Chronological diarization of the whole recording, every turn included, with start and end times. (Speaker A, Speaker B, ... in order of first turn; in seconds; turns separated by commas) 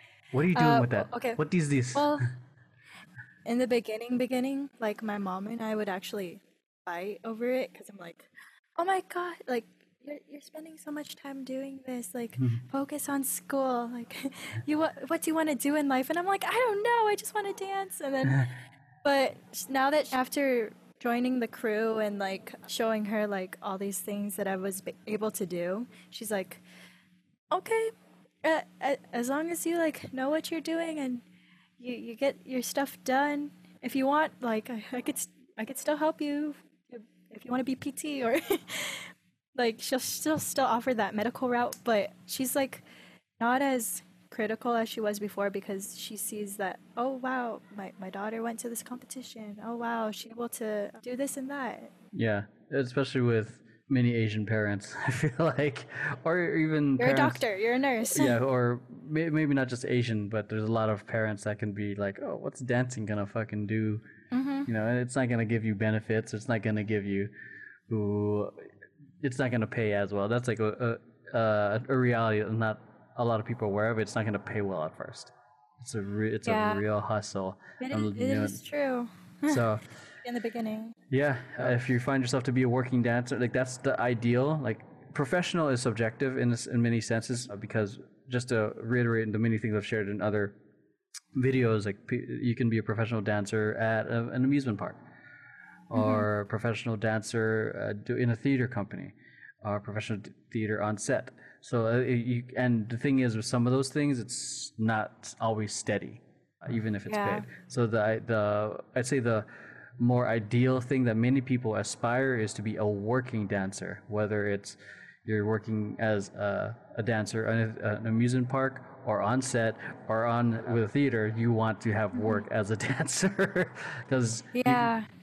Speaker A: 0.3-2.1, Speaker B: 0.5-1.4, Speaker B: 1.9-2.3, Speaker B: 3.5-18.5, Speaker B: 19.0-26.6, Speaker B: 27.5-27.9, Speaker B: 28.4-31.2, Speaker B: 31.8-42.9, Speaker B: 43.4-51.9, Speaker A: 52.1-57.4, Speaker B: 57.0-58.4, Speaker A: 58.1-64.0, Speaker B: 64.3-64.7, Speaker A: 64.7-67.3, Speaker A: 67.9-68.7, Speaker A: 69.2-78.6, Speaker B: 76.5-76.8, Speaker B: 77.8-79.7, Speaker A: 79.5-79.8, Speaker B: 80.2-81.0, Speaker A: 81.1-90.6, Speaker A: 91.3-95.0, Speaker A: 95.9-109.5, Speaker B: 95.9-96.3, Speaker B: 107.1-107.5, Speaker A: 110.0-124.9, Speaker B: 124.5-125.1